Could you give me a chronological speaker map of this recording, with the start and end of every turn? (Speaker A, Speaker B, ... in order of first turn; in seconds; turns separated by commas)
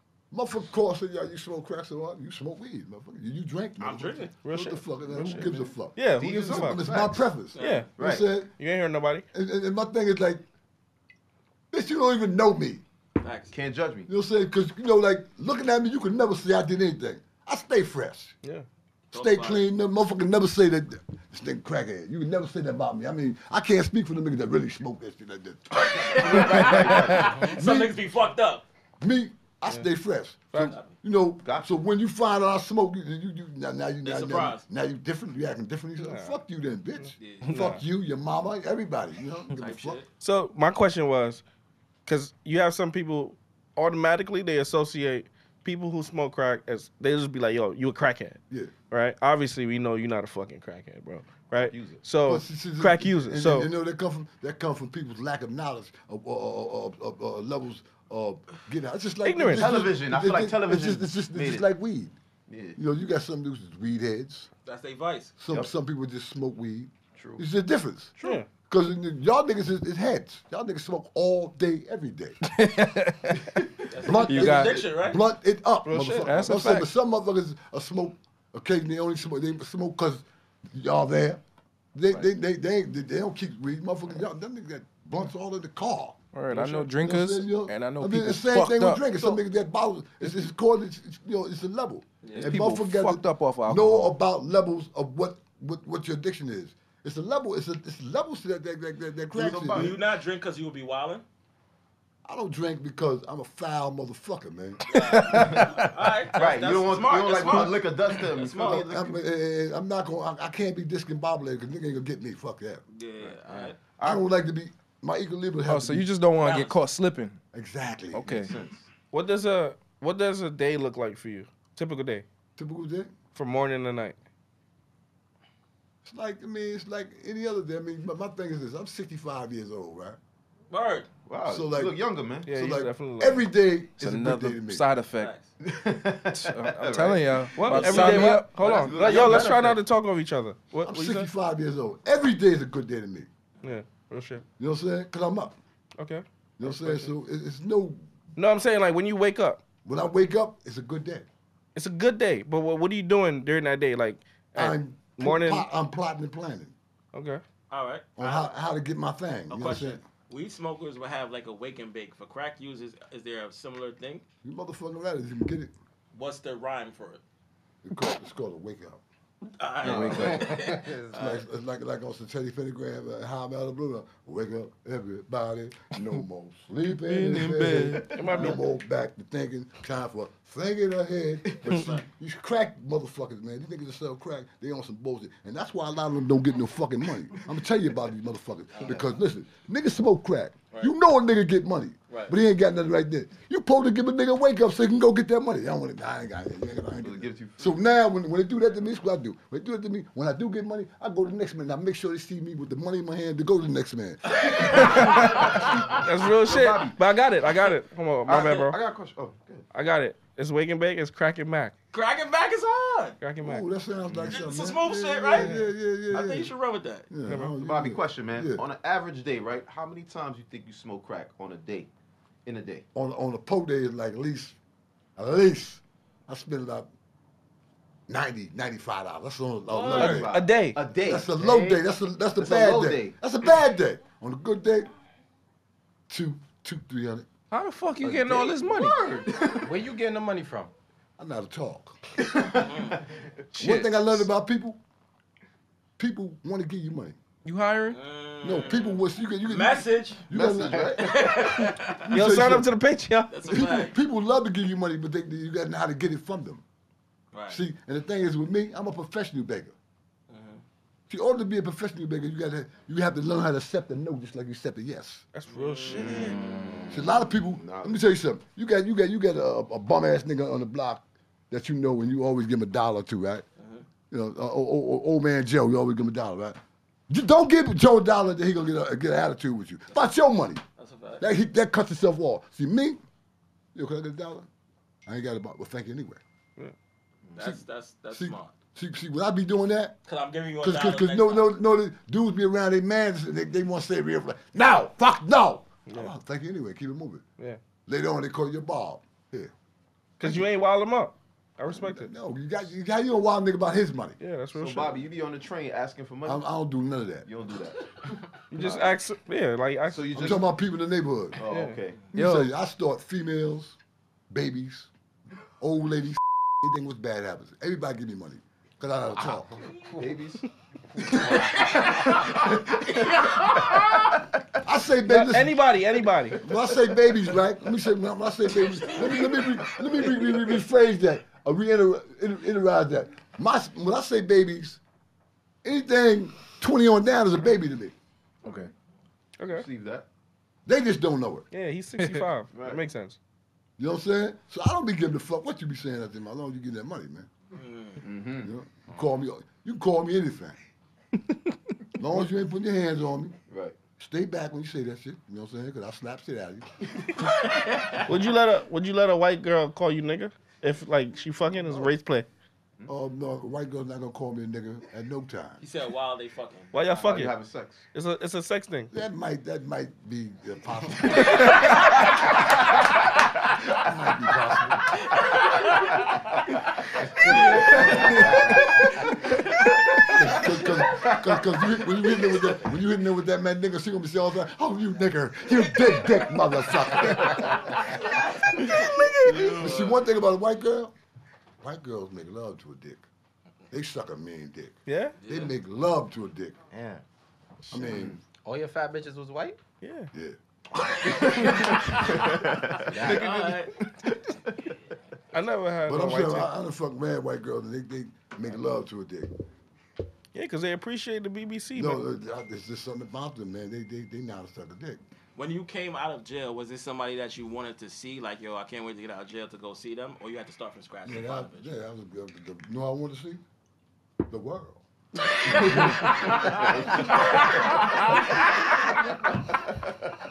Speaker A: 0.3-8.5, Speaker B: 3.8-4.3, Speaker C: 4.4-6.8, Speaker D: 6.2-7.3, Speaker B: 7.5-7.9, Speaker C: 7.6-7.9, Speaker D: 8.0-8.3, Speaker C: 8.5-9.2, Speaker A: 9.3-10.4, Speaker A: 11.7-12.8, Speaker B: 13.2-13.5, Speaker D: 13.5-14.1, Speaker A: 14.1-18.3, Speaker A: 19.1-28.1, Speaker B: 19.1-19.6, Speaker B: 25.7-28.6, Speaker D: 26.2-27.5, Speaker A: 29.0-40.0, Speaker B: 30.5-30.9, Speaker D: 31.4-31.7, Speaker B: 34.0-34.6, Speaker C: 36.0-36.3, Speaker C: 37.0-37.8, Speaker B: 37.2-37.5, Speaker B: 39.5-40.1, Speaker C: 40.2-41.4, Speaker C: 42.1-53.7, Speaker D: 51.6-52.0, Speaker A: 52.2-62.2, Speaker C: 59.2-59.8, Speaker D: 59.5-61.7, Speaker D: 62.5-62.8, Speaker A: 62.7-64.5, Speaker B: 64.6-65.3, Speaker A: 65.4-72.4, Speaker D: 67.1-67.4, Speaker C: 68.2-68.5, Speaker E: 72.5-73.6, Speaker B: 73.9-75.2, Speaker A: 74.0-81.4, Speaker E: 74.2-74.7, Speaker C: 75.8-76.3, Speaker E: 76.2-76.9, Speaker A: 81.9-100.0, Speaker E: 86.3-89.4, Speaker C: 86.5-86.9, Speaker B: 92.2-92.5, Speaker E: 92.4-94.2, Speaker D: 99.3-100.0, Speaker B: 99.7-101.2, Speaker A: 102.2-104.8, Speaker B: 104.9-108.9, Speaker E: 104.9-105.7, Speaker D: 105.4-105.7, Speaker D: 106.3-109.2, Speaker A: 108.6-112.8, Speaker B: 112.9-113.8, Speaker D: 113.2-114.2, Speaker A: 114.0-116.1, Speaker E: 115.7-117.4, Speaker B: 116.4-116.8, Speaker A: 117.5-118.5, Speaker E: 118.1-118.5, Speaker D: 118.3-118.9, Speaker C: 119.1-122.2, Speaker A: 122.6-123.1, Speaker C: 123.3-124.2, Speaker A: 126.0-130.2, Speaker B: 130.7-131.1, Speaker D: 131.2-132.5, Speaker A: 131.4-134.8, Speaker C: 132.5-133.4, Speaker E: 134.0-135.3, Speaker B: 135.1-135.5, Speaker D: 135.6-139.8, Speaker E: 136.3-138.5, Speaker C: 137.6-141.3, Speaker E: 139.2-139.5, Speaker A: 140.8-143.3, Speaker C: 143.6-144.4, Speaker A: 144.6-145.6, Speaker C: 146.0-147.1, Speaker A: 146.6-148.0, Speaker C: 148.3-149.6, Speaker A: 149.8-151.3, Speaker C: 151.7-155.7, Speaker A: 154.5-156.7, Speaker C: 157.1-157.4, Speaker B: 157.7-158.5, Speaker A: 158.2-160.0, Speaker B: 159.5-164.2, Speaker A: 164.4-165.7, Speaker B: 166.1-167.2, Speaker A: 167.8-169.0, Speaker B: 169.4-171.4, Speaker E: 169.8-170.6, Speaker D: 169.8-170.7, Speaker F: 170.4-171.1, Speaker A: 171.1-205.1, Speaker E: 177.0-178.1, Speaker D: 177.9-178.6, Speaker C: 178.1-178.6, Speaker D: 181.4-181.9, Speaker B: 181.7-182.0, Speaker B: 188.7-189.1, Speaker D: 188.8-189.1, Speaker D: 196.9-197.8, Speaker D: 204.5-207.0, Speaker C: 204.7-208.8, Speaker D: 208.2-209.7, Speaker C: 209.7-211.7, Speaker B: 211.9-213.2, Speaker C: 213.2-213.6, Speaker A: 213.4-216.5, Speaker D: 214.1-214.4, Speaker B: 214.3-215.5, Speaker B: 216.1-217.1, Speaker A: 217.1-218.6, Speaker C: 217.3-217.5, Speaker D: 217.5-221.9, Speaker D: 222.4-222.8, Speaker A: 222.9-224.6, Speaker A: 225.2-226.9, Speaker A: 228.1-230.3, Speaker B: 229.7-230.2, Speaker D: 229.7-231.8, Speaker C: 229.9-230.8, Speaker A: 231.0-234.9, Speaker D: 232.4-233.2, Speaker A: 236.1-237.3, Speaker E: 237.5-239.0, Speaker D: 238.1-239.8, Speaker F: 239.6-240.7, Speaker A: 241.2-241.9, Speaker D: 242.2-243.2, Speaker B: 242.6-243.0, Speaker E: 243.5-244.2, Speaker A: 243.6-244.8, Speaker A: 246.0-247.2, Speaker E: 247.4-248.0, Speaker B: 247.9-250.2, Speaker A: 248.4-251.1, Speaker D: 250.3-251.7, Speaker B: 250.9-252.1, Speaker A: 252.1-252.7, Speaker C: 252.1-253.7, Speaker B: 253.3-253.9, Speaker A: 253.5-256.6, Speaker B: 257.3-257.6, Speaker A: 257.5-259.7, Speaker B: 260.3-260.6, Speaker A: 261.1-265.2, Speaker C: 265.3-266.4, Speaker B: 265.5-266.4, Speaker D: 265.9-266.8, Speaker A: 266.9-273.4, Speaker D: 267.6-268.0, Speaker B: 273.6-273.9, Speaker A: 274.1-280.6, Speaker B: 280.8-281.3, Speaker A: 281.2-283.0, Speaker A: 283.7-284.5, Speaker A: 285.1-286.2, Speaker B: 287.4-288.5, Speaker A: 287.4-289.9, Speaker B: 290.0-291.6, Speaker A: 290.6-297.2, Speaker A: 297.9-299.5, Speaker C: 300.2-302.1, Speaker A: 301.7-304.2, Speaker C: 304.2-305.0, Speaker D: 304.5-306.4, Speaker A: 306.2-307.3, Speaker D: 307.2-309.0, Speaker C: 308.5-310.2, Speaker D: 309.9-310.5, Speaker A: 310.1-311.4, Speaker D: 311.4-312.1, Speaker C: 311.5-311.8, Speaker E: 312.1-312.5, Speaker A: 312.1-313.8, Speaker A: 314.3-314.9, Speaker A: 315.6-319.6, Speaker D: 319.9-320.4, Speaker D: 320.9-324.2, Speaker A: 324.6-325.6, Speaker C: 325.1-326.4, Speaker A: 326.4-334.8, Speaker D: 329.0-330.6, Speaker A: 335.6-337.9, Speaker D: 338.4-338.7, Speaker C: 339.4-339.6, Speaker D: 339.5-340.1, Speaker A: 340.6-341.4, Speaker C: 341.5-343.2, Speaker D: 342.5-342.8, Speaker A: 343.8-347.3, Speaker B: 347.5-348.0, Speaker D: 348.0-348.5, Speaker A: 348.4-350.6, Speaker A: 352.0-353.4, Speaker D: 353.5-353.8, Speaker A: 354.0-357.1, Speaker B: 357.2-358.0, Speaker C: 358.0-362.2, Speaker A: 361.6-361.9, Speaker A: 362.9-365.6, Speaker B: 365.6-366.7, Speaker C: 366.7-367.4, Speaker D: 366.9-367.9, Speaker C: 367.9-368.9, Speaker A: 368.9-371.7, Speaker C: 371.3-371.6, Speaker A: 373.8-375.0, Speaker B: 375.0-376.1, Speaker F: 377.1-378.3, Speaker B: 377.2-378.6, Speaker D: 377.2-378.8, Speaker A: 377.7-378.6, Speaker B: 379.3-379.6, Speaker D: 379.9-382.5, Speaker A: 380.1-387.8, Speaker B: 385.6-389.9, Speaker C: 388.6-389.8, Speaker A: 389.2-390.9, Speaker A: 391.6-393.0, Speaker A: 393.7-396.6, Speaker C: 394.9-395.1, Speaker B: 395.2-395.5, Speaker F: 396.7-397.0, Speaker A: 397.7-398.2, Speaker D: 397.7-398.2, Speaker F: 398.4-399.6, Speaker C: 399.8-400.1, Speaker A: 400.1-401.4, Speaker D: 401.0-404.7, Speaker B: 401.1-402.2, Speaker B: 402.9-403.8, Speaker F: 402.9-403.3, Speaker C: 405.3-406.5, Speaker A: 405.9-409.3, Speaker C: 410.3-412.0, Speaker A: 411.7-415.0, Speaker B: 415.4-421.7, Speaker A: 421.0-423.4, Speaker A: 424.3-424.8, Speaker B: 425.2-429.0, Speaker A: 425.4-426.3, Speaker D: 425.6-428.5, Speaker D: 429.5-429.8